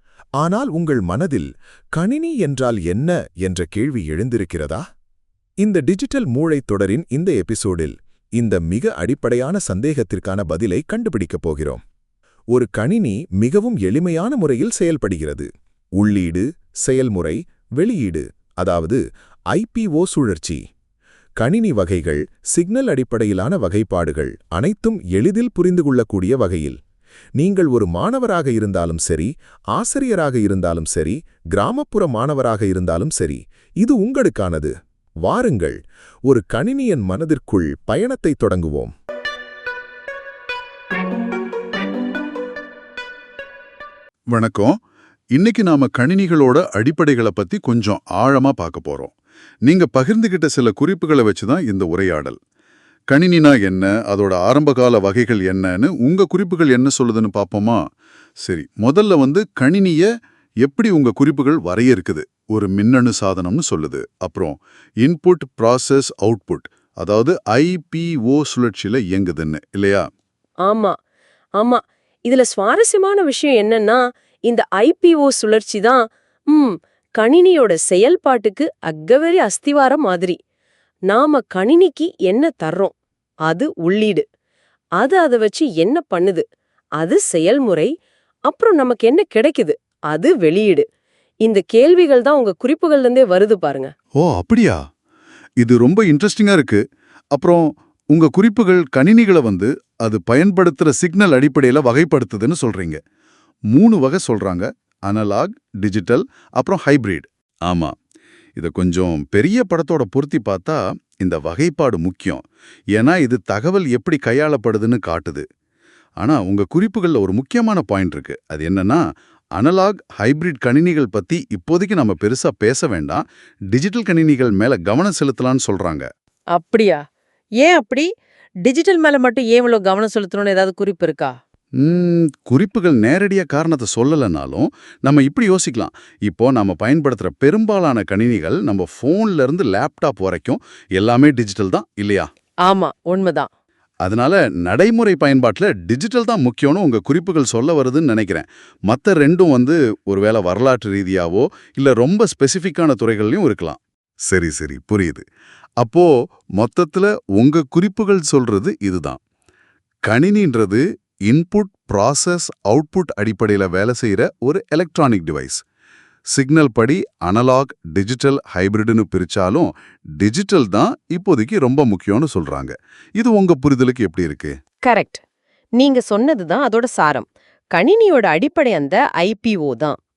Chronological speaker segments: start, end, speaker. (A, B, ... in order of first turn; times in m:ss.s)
0:00.4-0:04.8 A
0:05.6-0:11.8 A
0:12.5-0:20.6 A
0:21.4-0:26.8 A
0:27.4-0:34.7 A
0:35.2-0:38.9 A
0:44.3-0:44.8 B
0:45.3-0:49.1 B
0:49.6-0:52.4 B
0:53.1-0:57.8 B
0:58.4-1:00.1 B
1:00.6-1:10.0 B
1:10.6-1:10.9 C
1:11.6-1:20.4 C
1:21.1-1:22.9 C
1:23.4-1:24.2 C
1:25.0-1:26.4 C
1:27.0-1:27.9 C
1:28.5-1:30.8 C
1:31.4-1:33.9 C
1:34.2-1:34.8 B
1:35.6-1:36.8 B
1:37.3-1:43.0 B
1:43.7-1:47.9 B
1:48.6-1:52.4 B
1:52.9-1:55.4 B
1:56.2-1:59.0 B
1:59.6-2:06.1 B
2:06.5-2:07.0 C
2:07.6-2:08.1 C
2:08.6-2:11.3 C
2:11.8-2:22.3 B
2:22.6-2:23.5 C
2:24.0-2:35.2 B
2:35.8-2:39.2 B
2:40.0-2:45.6 B
2:46.3-2:54.6 B
2:54.8-2:55.2 C
2:55.8-3:00.0 C